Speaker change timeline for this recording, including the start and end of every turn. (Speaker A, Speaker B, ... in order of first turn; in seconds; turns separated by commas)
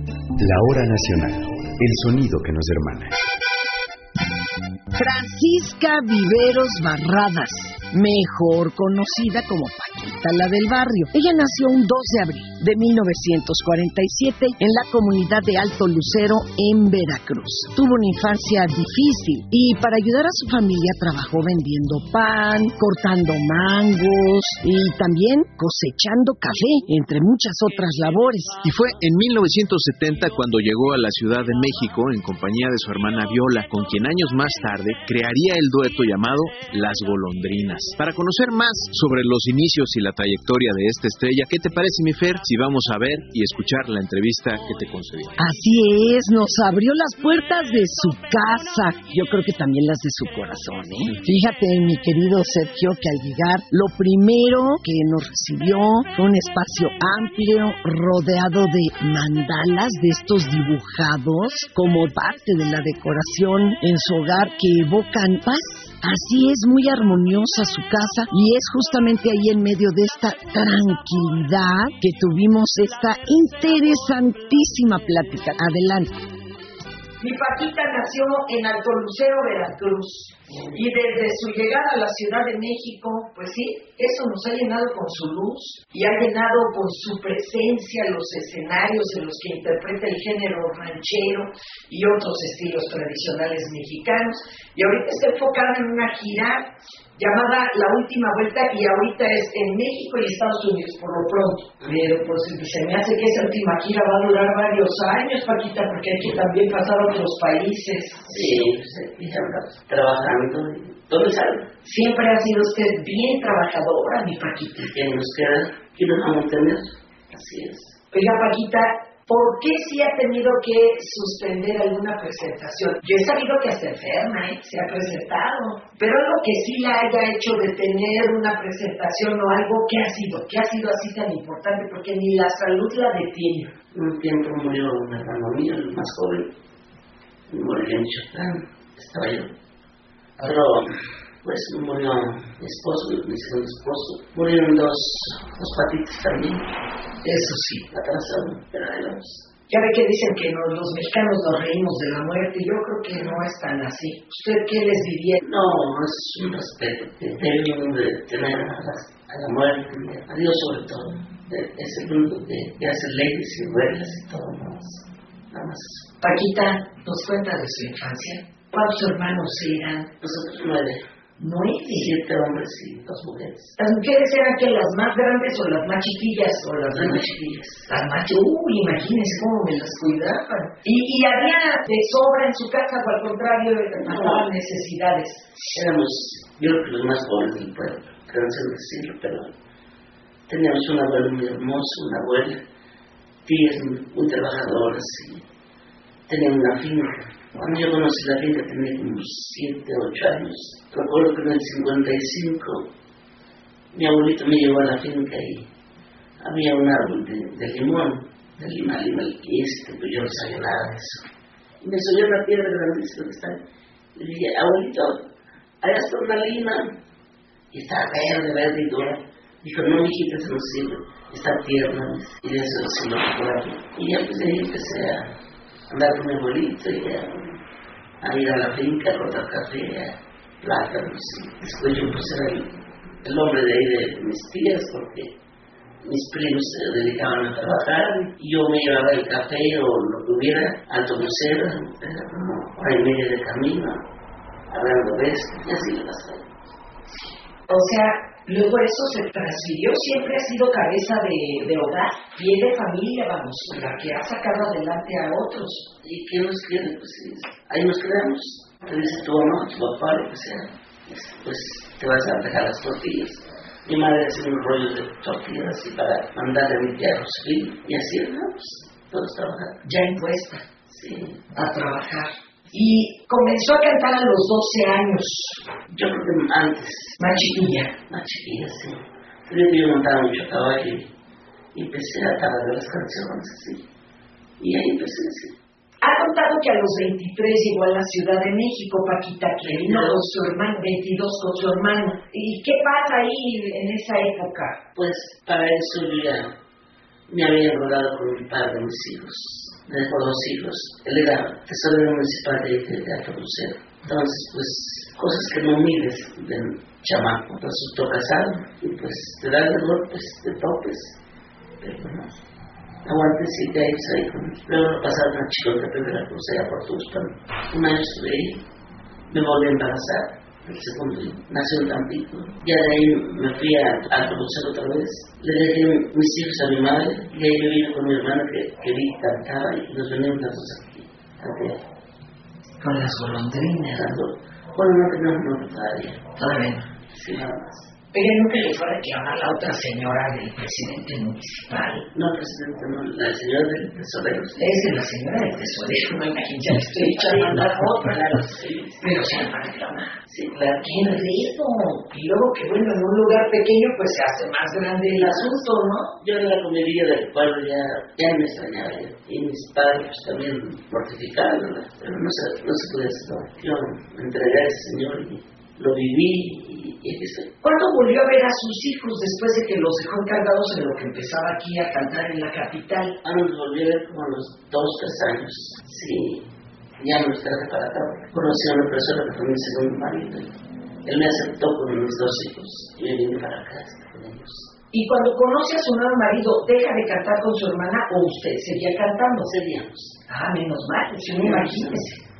Speaker A: 0.4-3.1, Speaker B: 5.0-11.1, Speaker C: 7.8-8.3, Speaker C: 9.0-10.2, Speaker C: 11.1-14.5, Speaker B: 12.7-24.0, Speaker C: 18.3-19.1, Speaker C: 23.6-24.8, Speaker B: 24.6-26.4, Speaker C: 25.6-28.1, Speaker B: 27.2-28.6, Speaker D: 28.6-45.4, Speaker C: 45.5-46.3, Speaker B: 46.1-76.1, Speaker C: 77.2-108.6, Speaker E: 108.3-111.7, Speaker C: 111.8-114.9, Speaker E: 114.8-118.0, Speaker C: 118.1-133.7, Speaker E: 133.9-136.5, Speaker E: 137.5-139.5, Speaker E: 140.4-140.9, Speaker E: 141.4-146.7, Speaker C: 147.2-147.9, Speaker E: 147.9-149.5, Speaker C: 149.7-155.4, Speaker E: 155.4-166.1, Speaker C: 166.2-170.1, Speaker E: 170.2-171.0, Speaker C: 171.4-172.2, Speaker E: 171.9-173.8, Speaker C: 173.8-177.3, Speaker E: 176.9-177.9, Speaker C: 177.9-185.7, Speaker E: 184.0-184.5, Speaker E: 185.7-189.5, Speaker E: 190.5-192.6, Speaker E: 193.4-195.4, Speaker E: 196.3-202.9, Speaker E: 203.9-205.7, Speaker E: 206.4-211.3, Speaker E: 211.8-213.6, Speaker E: 214.2-215.3, Speaker E: 215.8-217.0, Speaker E: 217.7-225.3, Speaker E: 225.9-227.6, Speaker E: 228.2-235.3, Speaker E: 236.0-244.1, Speaker E: 244.7-246.5, Speaker C: 247.7-255.9, Speaker E: 256.0-269.8, Speaker C: 269.9-270.6, Speaker E: 270.9-271.5, Speaker C: 271.5-275.6, Speaker E: 275.9-277.5, Speaker C: 277.2-277.9, Speaker E: 278.1-281.1, Speaker E: 281.7-283.9, Speaker E: 284.6-285.6, Speaker C: 286.0-294.8, Speaker E: 289.6-290.2, Speaker E: 294.9-296.6, Speaker E: 297.3-311.2, Speaker E: 311.8-312.4, Speaker E: 313.1-318.6, Speaker E: 319.3-331.8, Speaker C: 332.8-334.1, Speaker E: 333.9-336.3, Speaker C: 336.4-336.9, Speaker E: 337.1-337.9, Speaker C: 338.1-342.1, Speaker E: 342.1-344.7, Speaker C: 344.6-356.1, Speaker E: 347.0-349.0, Speaker E: 350.3-351.2, Speaker E: 355.2-355.6, Speaker E: 356.2-367.5, Speaker C: 367.6-373.2, Speaker E: 373.2-376.5, Speaker E: 377.0-384.7, Speaker C: 384.9-389.5, Speaker E: 389.4-390.2, Speaker C: 390.3-392.2, Speaker E: 391.2-392.1